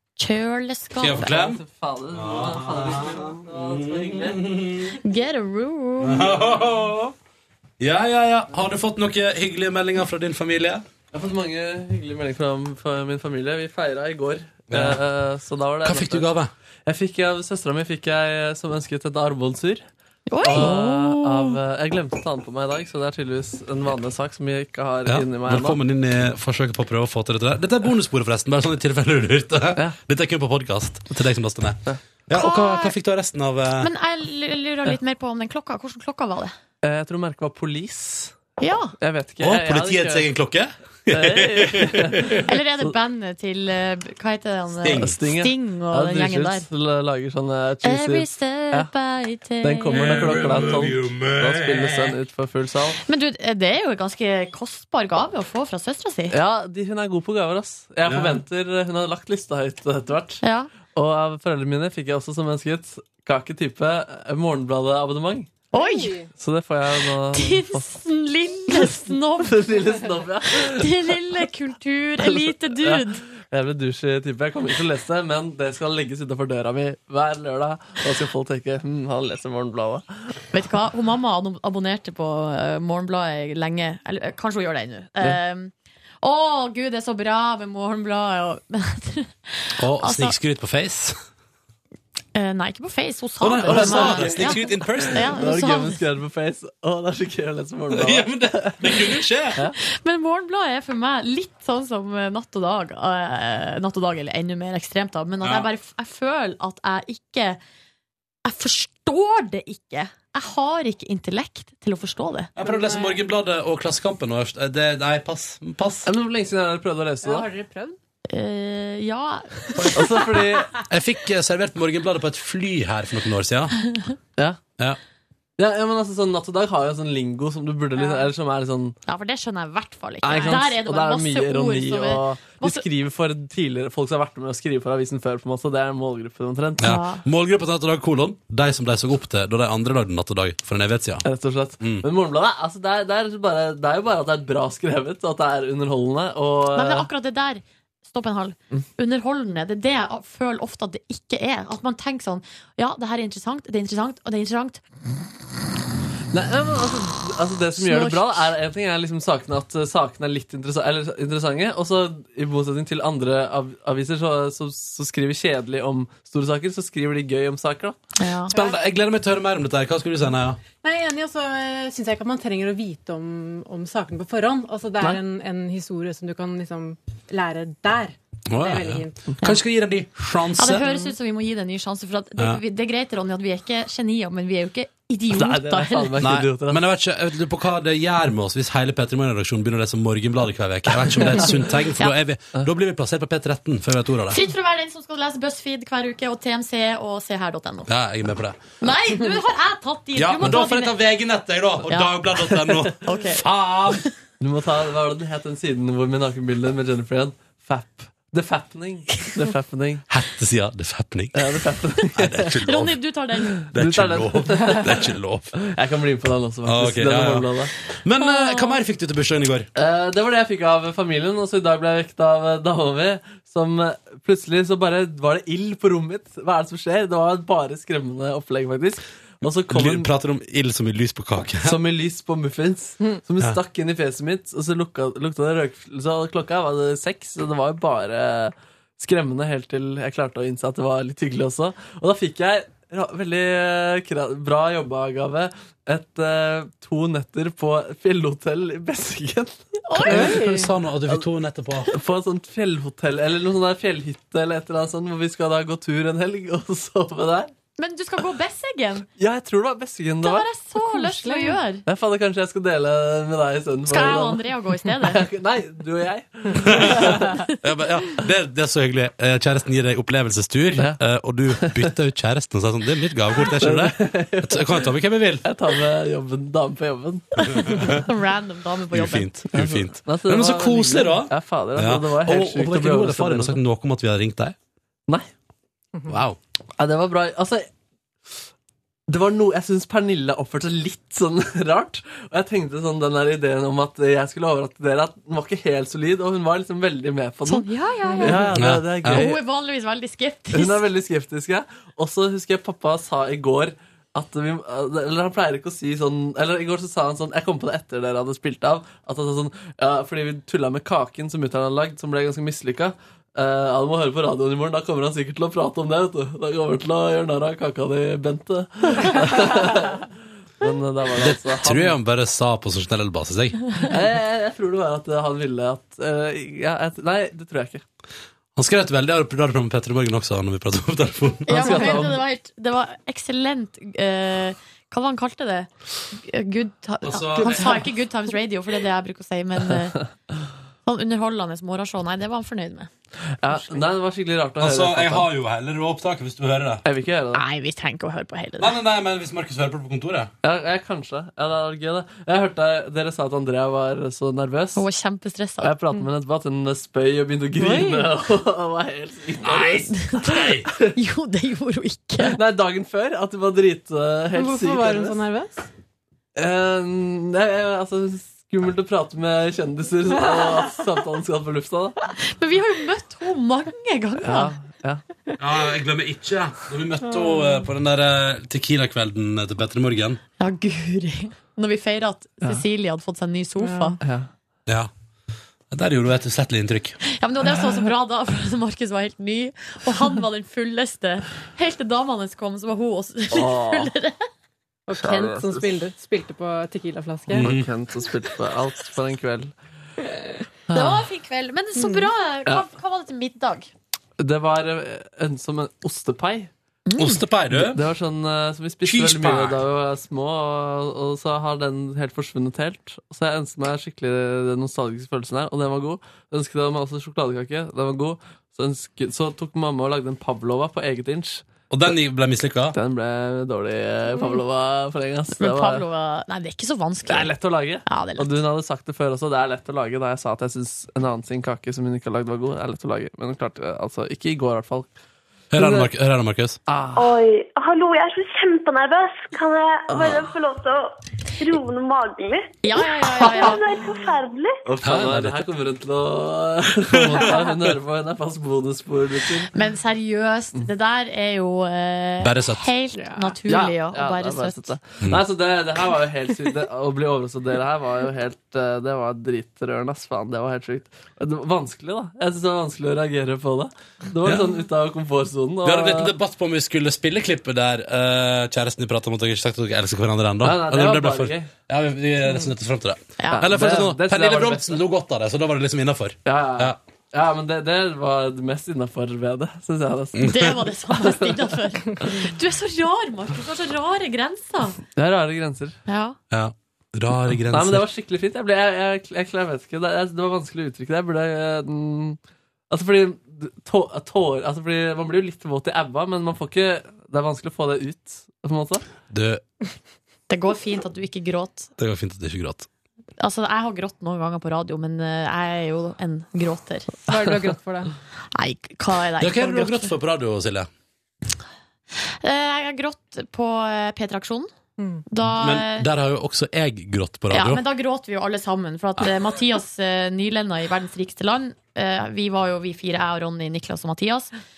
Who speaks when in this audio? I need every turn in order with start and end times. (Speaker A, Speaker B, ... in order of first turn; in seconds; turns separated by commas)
Speaker A: 0.2-1.4, Speaker B: 1.0-1.6, Speaker C: 1.2-4.4, Speaker B: 2.1-5.0, Speaker A: 5.0-6.4, Speaker B: 6.0-7.1, Speaker B: 7.8-10.9, Speaker C: 11.1-16.3, Speaker B: 14.7-15.0, Speaker B: 15.8-16.5, Speaker C: 16.9-19.9, Speaker A: 20.3-21.6, Speaker C: 20.4-25.8, Speaker B: 25.1-33.9, Speaker A: 32.3-33.0, Speaker A: 33.8-36.5, Speaker C: 36.8-38.4, Speaker A: 38.6-38.9, Speaker C: 39.0-40.3, Speaker B: 39.4-42.5, Speaker C: 41.1-42.5, Speaker A: 42.5-46.7, Speaker B: 44.8-45.2, Speaker C: 44.9-48.9, Speaker A: 47.8-50.3, Speaker C: 49.6-53.0, Speaker B: 49.9-52.2, Speaker A: 53.0-56.4, Speaker C: 56.3-60.4, Speaker B: 58.0-58.4, Speaker A: 60.4-60.7, Speaker C: 60.9-65.5, Speaker A: 65.7-66.2, Speaker D: 65.7-66.3, Speaker C: 66.4-67.9, Speaker A: 67.3-69.8, Speaker C: 68.8-70.9, Speaker A: 70.5-73.2, Speaker C: 72.2-80.1, Speaker A: 80.5-90.3, Speaker B: 89.8-91.2, Speaker A: 92.3-96.0, Speaker B: 93.4-95.4, Speaker C: 93.7-94.7, Speaker C: 95.2-99.0, Speaker B: 97.9-99.6, Speaker A: 99.8-107.6, Speaker B: 105.4-105.7, Speaker A: 108.5-112.5, Speaker B: 112.6-116.1, Speaker D: 112.6-113.2, Speaker C: 116.0-117.5, Speaker D: 117.2-118.0, Speaker A: 118.3-120.2, Speaker C: 119.9-120.8, Speaker B: 120.8-123.8, Speaker C: 125.6-129.0, Speaker A: 129.1-132.8, Speaker C: 130.2-137.0, Speaker B: 136.8-141.3, Speaker A: 136.8-137.2, Speaker C: 141.2-147.1, Speaker B: 141.8-142.1, Speaker A: 146.8-154.8, Speaker C: 156.3-168.0, Speaker A: 157.8-158.4, Speaker A: 168.2-168.5, Speaker B: 168.5-170.6, Speaker D: 170.8-179.2, Speaker B: 178.5-180.9, Speaker A: 180.6-186.2, Speaker C: 185.3-186.8, Speaker B: 186.2-194.4, Speaker A: 194.3-197.9, Speaker B: 197.9-198.6, Speaker A: 198.8-200.9, Speaker B: 200.2-204.1, Speaker A: 201.9-202.1, Speaker A: 203.0-203.4, Speaker C: 204.4-210.1, Speaker B: 210.1-213.0, Speaker C: 211.3-212.6, Speaker A: 212.6-213.6, Speaker C: 213.6-215.0, Speaker B: 213.7-215.6, Speaker C: 215.6-217.7, Speaker B: 216.7-219.7, Speaker A: 218.2-218.8, Speaker C: 219.8-230.1, Speaker B: 229.7-231.8, Speaker C: 231.6-250.4, Speaker A: 249.9-250.4, Speaker B: 250.0-251.9, Speaker D: 250.2-250.7, Speaker C: 251.9-257.5, Speaker A: 257.8-259.1, Speaker C: 259.2-260.5, Speaker A: 260.2-261.8, Speaker D: 260.8-261.6, Speaker C: 261.9-267.4, Speaker A: 263.9-265.3, Speaker B: 266.6-275.4, Speaker C: 271.6-271.8, Speaker C: 273.5-274.8, Speaker C: 275.4-278.0, Speaker A: 277.4-279.3, Speaker B: 277.7-278.0, Speaker B: 278.9-284.6, Speaker C: 279.5-283.6, Speaker B: 286.1-286.4, Speaker C: 286.8-287.7, Speaker C: 289.1-297.7, Speaker A: 297.5-298.5, Speaker D: 298.0-298.5, Speaker C: 298.2-299.4, Speaker B: 298.5-299.3, Speaker A: 299.1-300.8, Speaker C: 300.5-320.1, Speaker C: 320.6-322.0, Speaker B: 321.2-323.7, Speaker C: 323.8-327.8, Speaker B: 328.6-331.8, Speaker A: 331.5-340.0, Speaker C: 331.5-332.2, Speaker B: 337.0-337.8, Speaker A: 340.9-342.9, Speaker C: 343.4-345.3, Speaker B: 344.6-346.8, Speaker C: 346.9-347.4, Speaker A: 347.4-348.7, Speaker B: 348.6-350.3, Speaker C: 350.4-354.9, Speaker A: 354.8-355.8, Speaker C: 355.6-359.9, Speaker D: 357.5-358.1, Speaker B: 359.4-360.7, Speaker A: 359.9-362.4, Speaker C: 362.2-365.2, Speaker D: 364.3-365.6, Speaker C: 366.4-371.9, Speaker A: 372.2-374.6, Speaker C: 374.2-375.0, Speaker B: 375.4-380.2, Speaker A: 380.4-384.0, Speaker D: 383.6-383.9, Speaker C: 384.0-384.3, Speaker B: 385.7-387.0, Speaker A: 387.1-394.2, Speaker C: 393.3-393.9, Speaker D: 394.9-397.6, Speaker C: 394.9-395.8, Speaker B: 397.3-397.7, Speaker C: 397.3-399.5, Speaker C: 400.7-401.1, Speaker A: 400.7-403.7, Speaker C: 401.9-402.7, Speaker C: 404.2-406.5, Speaker A: 406.9-407.2, Speaker B: 407.0-407.9, Speaker C: 407.5-421.4, Speaker B: 408.9-409.6, Speaker B: 421.7-422.8, Speaker C: 422.7-425.9, Speaker A: 425.4-427.3, Speaker C: 427.1-434.9, Speaker A: 427.9-428.3, Speaker B: 435.5-436.6, Speaker C: 435.6-435.9, Speaker C: 436.7-437.1, Speaker E: 437.0-442.5, Speaker C: 439.9-440.3, Speaker A: 442.6-443.6, Speaker E: 443.2-444.5, Speaker C: 444.7-449.5, Speaker B: 444.8-445.4, Speaker A: 449.5-454.7, Speaker B: 452.2-452.7, Speaker D: 452.9-453.4, Speaker C: 453.5-466.1, Speaker B: 464.2-464.5, Speaker B: 465.6-476.8, Speaker C: 470.4-471.5, Speaker A: 473.2-473.5, Speaker C: 473.3-474.8, Speaker C: 476.2-481.3, Speaker B: 480.2-480.5, Speaker A: 480.2-484.8, Speaker C: 484.9-485.8, Speaker A: 485.9-486.2, Speaker B: 486.3-487.9, Speaker C: 487.5-492.2, Speaker C: 492.7-498.8, Speaker B: 499.1-499.4, Speaker A: 500.3-501.7, Speaker B: 501.8-502.7, Speaker A: 503.2-507.0, Speaker D: 507.1-507.9, Speaker A: 508.4-509.9, Speaker B: 509.2-510.7, Speaker A: 512.2-514.5, Speaker D: 514.8-515.0, Speaker A: 515.1-515.9, Speaker B: 515.4-517.6, Speaker A: 517.3-524.3